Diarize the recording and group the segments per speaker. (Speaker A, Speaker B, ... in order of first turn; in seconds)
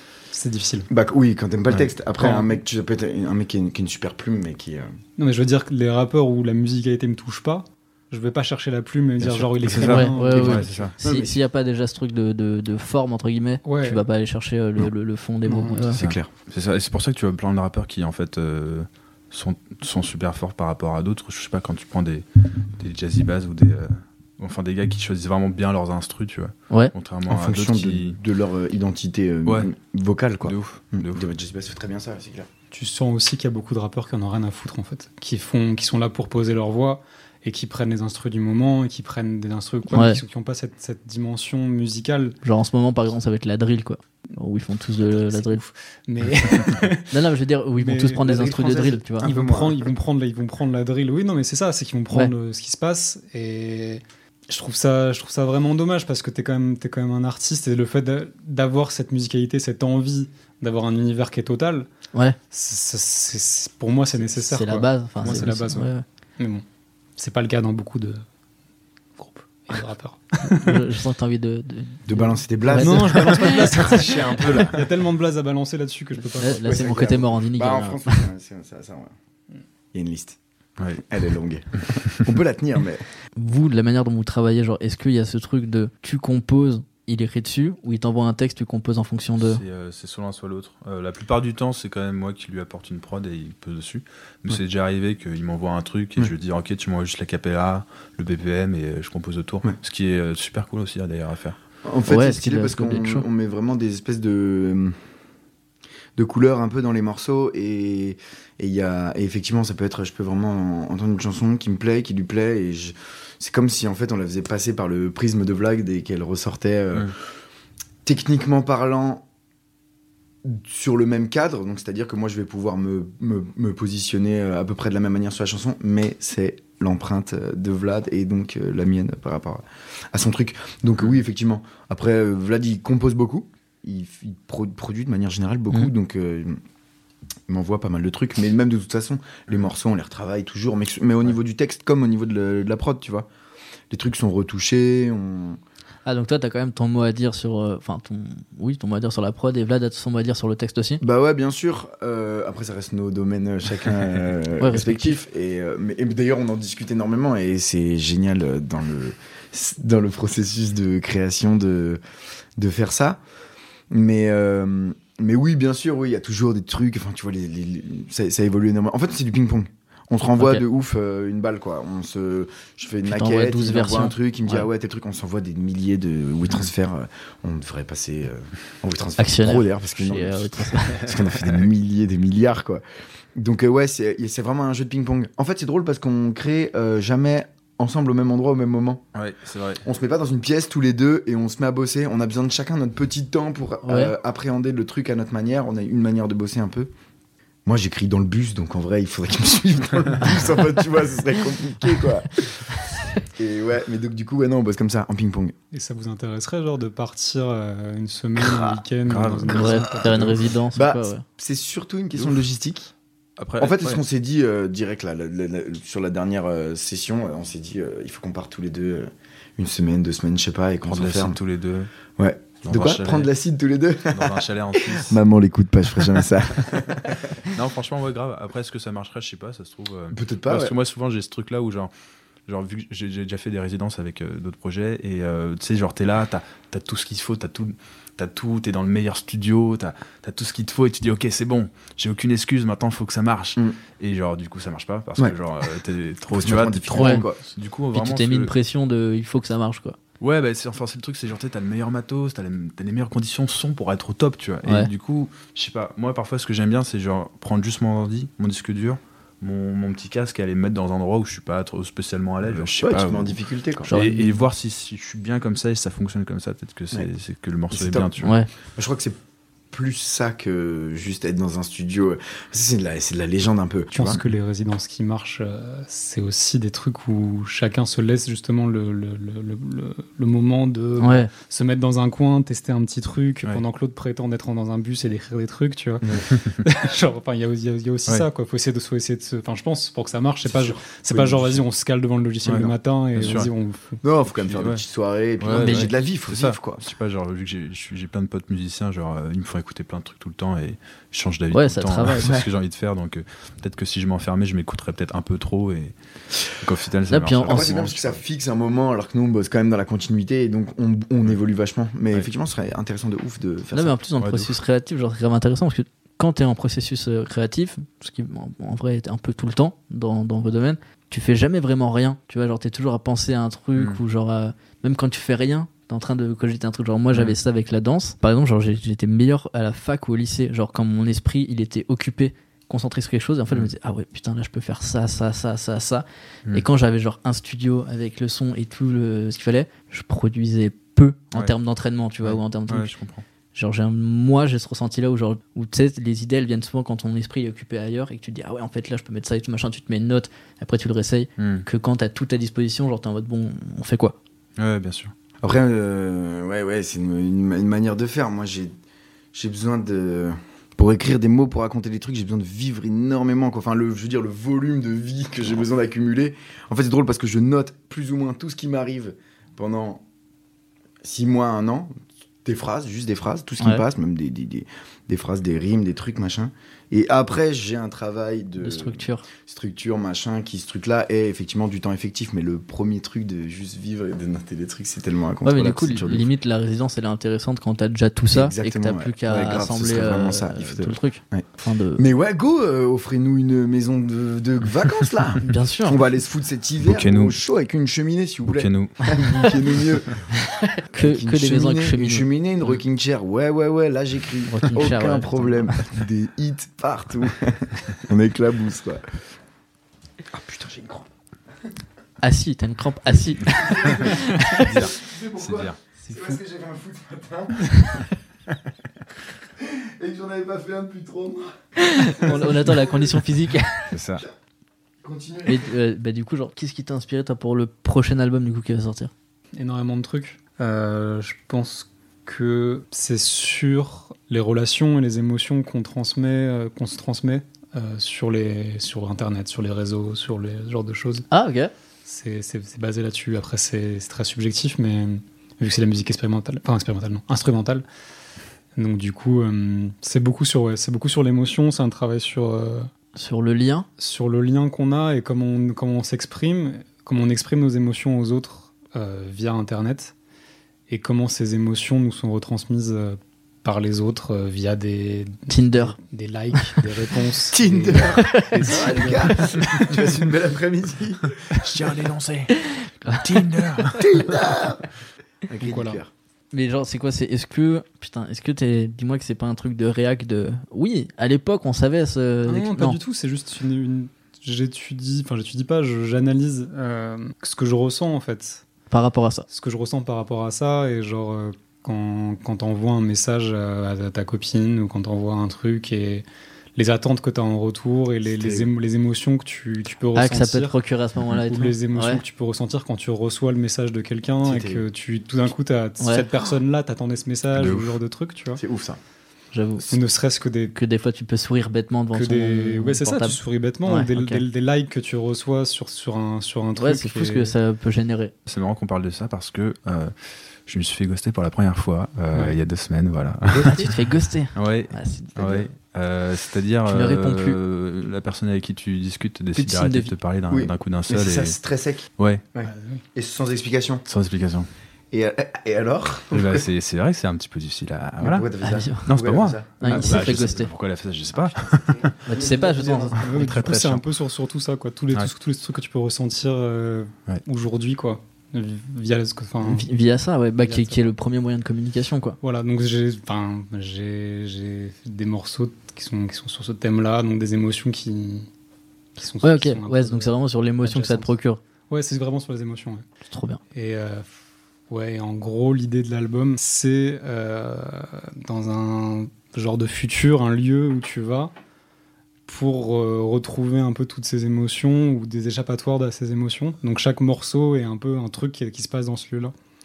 Speaker A: 0.3-0.9, 2.2-2.6, 5.2-10.9, 13.7-14.0, 15.5-15.9, 32.7-42.4, 45.1-47.2, 47.8-48.6, 49.2-61.9, 62.5-66.6, 67.2-68.2, 69.2-70.9, 72.7-76.7, 205.7-210.4, 273.9-294.0, 429.6-441.3, 442.1-447.8, 448.8-452.9, 454.0-460.1, 460.9-469.9, 475.6-476.0, 482.5-488.6, 489.5-496.2, 496.8-500.8, 501.3-508.6, 509.9-510.7, 512.1-517.5, 532.6-533.0, 543.2-549.9, 550.6-551.1, 552.4-558.5, 559.2-561.3, 561.9-563.0, 563.7-564.3, 564.9-571.5, 572.5-579.5
Speaker B: 0.9-4.9, 9.6-11.4, 15.9-16.3, 27.3-32.5, 48.3-49.9, 72.1-74.8, 76.5-79.1, 79.9-80.4, 80.9-83.0, 101.8-105.0, 106.2-117.2, 118.0-119.2, 120.4-136.6, 137.5-143.3, 143.9-145.6, 151.0-162.0, 162.6-163.2, 163.9-182.8, 183.3-189.0, 189.8-196.9, 197.7-202.7, 203.2-205.6, 208.4-208.8, 209.7-212.9, 213.6-221.4, 222.2-227.3, 230.1-230.7, 246.3-247.4, 262.4-263.9, 267.7-269.2, 269.7-274.2, 290.4-291.6, 294.0-296.9, 302.2-302.5, 307.4-314.0, 355.4-358.7, 359.3-370.0, 371.0-371.9, 372.4-386.3, 388.3-400.2, 400.9-409.1, 410.3-411.1, 413.4-418.1, 419.6-423.2, 425.0-425.7, 467.5-471.8, 473.9-474.9, 475.5-476.1, 498.3-498.7, 504.4-504.9, 508.6-509.0, 530.5-534.0, 535.1-536.7, 538.2-540.7, 541.5-543.3
Speaker C: 9.2-10.9, 15.9-28.2, 30.4-31.2, 74.2-74.7, 89.4-101.6, 181.0-181.7, 189.1-189.8, 209.1-210.3, 212.2-212.4, 213.4-214.0, 220.9-221.9, 222.6-223.3, 224.1-225.2, 227.4-231.9, 232.5-248.5, 250.2-268.3, 286.3-286.6, 292.4-293.5, 294.3-294.8, 295.4-308.2, 314.2-314.5, 342.2-343.2, 351.4-351.7, 354.6-355.1, 396.8-397.4, 398.5-399.1, 414.1-415.8, 423.9-424.3, 471.4-472.6, 473.1-474.3, 507.5-508.0, 518.5-523.9, 524.5-531.6, 532.2-532.4, 534.1-534.7, 536.3-538.5, 539.1-542.1, 543.4-544.0
Speaker D: 9.8-16.0, 39.9-40.2, 42.4-45.6, 47.1-49.3, 64.4-66.0, 70.5-73.7, 76.4-78.2, 83.4-89.6, 102.1-103.2, 146.1-151.0, 154.6-155.2, 170.4-170.6, 173.1-174.7, 179.2-181.0, 193.8-194.1, 209.5-211.2, 246.9-247.2, 247.9-250.0, 254.6-254.9, 263.9-264.4, 268.2-268.5, 281.0-281.3, 295.5-295.9, 301.5-302.4, 307.1-307.8, 313.7-342.9, 343.5-354.2, 378.6-379.3, 385.4-392.0, 395.4-396.0, 399.2-399.5, 400.6-402.3, 404.5-405.9, 412.2-414.9, 421.8-424.0, 425.4-429.1, 441.3-441.7, 453.2-453.9, 465.5-466.0, 468.1-468.8, 472.6-473.5, 476.5-483.0, 488.9-489.4, 500.1-502.2, 506.0-506.2, 509.5-509.9, 510.7-514.4, 516.8-518.3, 523.6-525.7, 526.9-527.6, 529.5-530.1, 538.6-539.1, 539.8-540.7, 542.3-543.8, 549.6-552.4, 559.4-561.6, 563.3-563.6